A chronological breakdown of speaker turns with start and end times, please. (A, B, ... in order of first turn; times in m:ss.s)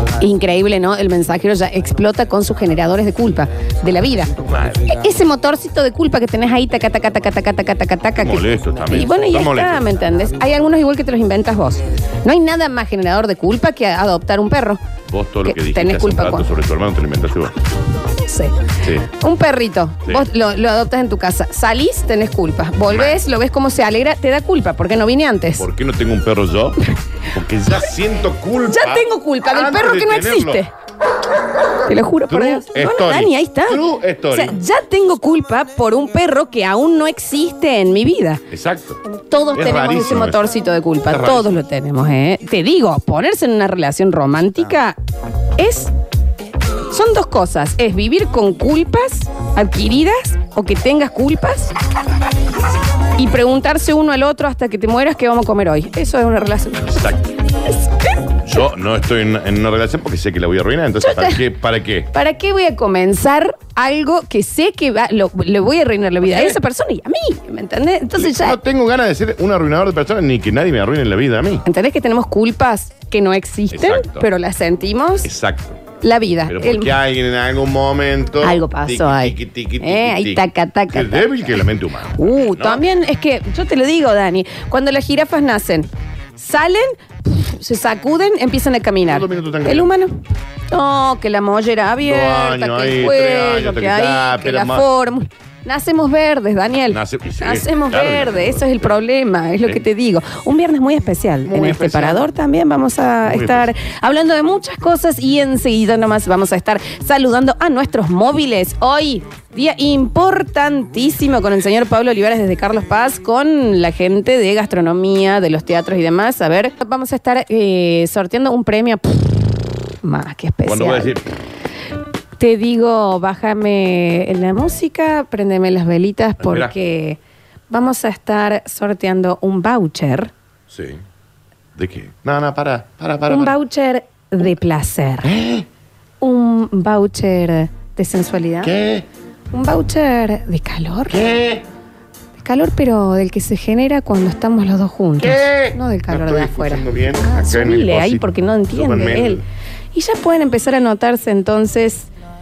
0:00.2-0:14.8 A
0:04.5-0:04.9 B
0:08.2-0:09.9 B
0:15.1-0:17.5 B
0:15.4-0:16.5 A
0:18.2-0:18.6 A
0:18.8-0:19.1 B
0:19.1-0:25.6 A
0:22.9-0:23.2 B
0:25.6-0:26.8 B
0:27.3-0:30.6 B
0:28.7-0:30.7 A
0:31.9-0:33.8 A
0:32.3-0:34.6 B
0:34.3-0:38.4 A
0:38.5-0:39.0 B
0:39.1-0:45.0 A
0:39.5-0:40.4 B
0:41.1-0:41.6 B
0:45.6-0:45.9 A
0:46.9-0:51.7 A
0:53.2-0:57.1 A
0:56.9-0:57.3 B
0:58.4-1:02.1 B
1:01.0-1:01.4 A
1:02.1-1:08.6 A
1:06.2-1:06.6 B
1:08.2-1:11.6 B
1:11.6-1:15.3 A
1:13.7-1:14.3 B
1:15.2-1:15.8 B
1:16.0-1:16.9 A
1:16.5-1:22.8 B
1:18.4-1:21.6 A
1:22.2-1:30.2 A
1:29.0-1:29.9 B
1:30.7-1:59.4 A
1:32.0-1:34.8 B
1:36.9-1:38.9 B
1:41.4-1:42.3 B
1:43.2-1:43.7 B
2:00.0-2:01.1 A
2:00.6-2:01.3 B
2:02.4-2:07.2 A
2:06.4-2:06.7 B
2:07.7-2:10.3 A
2:10.7-2:11.0 B
2:11.8-2:13.6 B
2:13.3-2:15.3 A
2:15.2-2:15.6 B
2:16.2-2:18.7 A
2:18.6-2:19.0 B
2:19.5-2:21.2 A
2:21.1-2:21.6 B
2:22.4-2:29.4 A
2:25.2-2:29.4 B
2:29.9-2:32.1 A